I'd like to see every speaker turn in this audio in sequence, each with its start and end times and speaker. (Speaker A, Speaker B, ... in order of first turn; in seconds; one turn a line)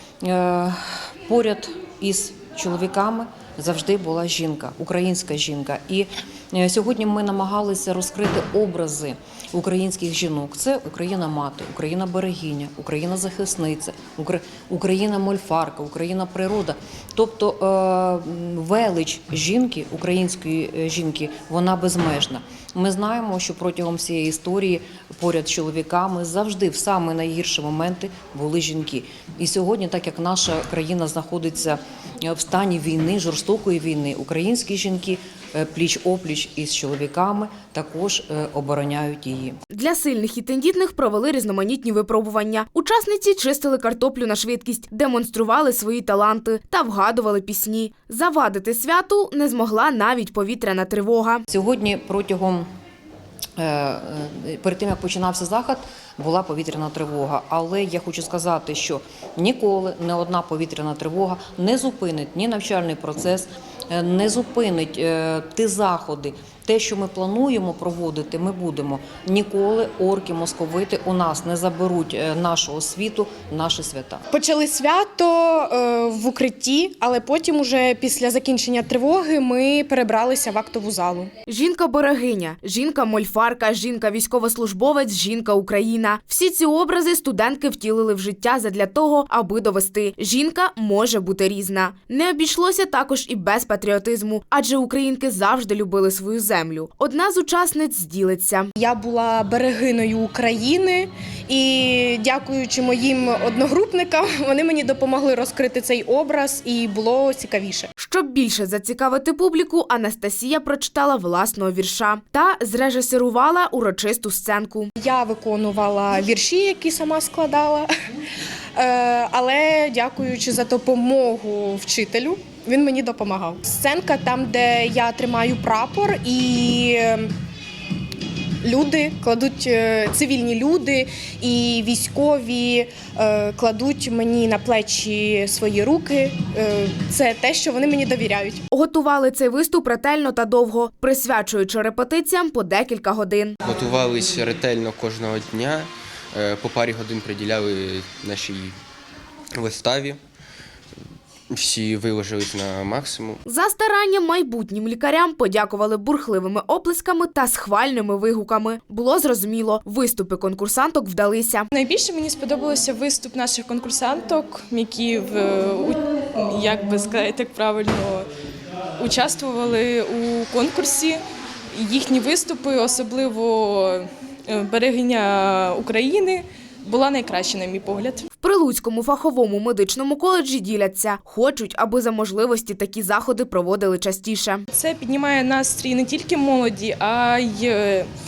Speaker A: 0.2-39.6
Speaker B: 39.7-51.4
Speaker A: 51.5-52.7
Speaker A: 53.6-74.2
Speaker C: 74.3-81.3
Speaker B: 81.5-98.7
Speaker C: 98.8-107.9
Speaker B: 108.0-114.9
Speaker C: 115.0-117.9
Speaker C: 118.8-127.3
Speaker C: 128.6-138.6
Speaker B: 138.7-143.6
Speaker D: 143.7-145.8
Speaker D: 146.4-148.7
Speaker D: 149.6-150.1
Speaker D: 151.6-153.4
Speaker B: 153.4-161.7
Speaker E: 161.7-168.3
Speaker E: 169.0-171.2
Speaker E: 171.7-178.2
Speaker B: 178.4-184.7
Speaker E: 184.7-188.1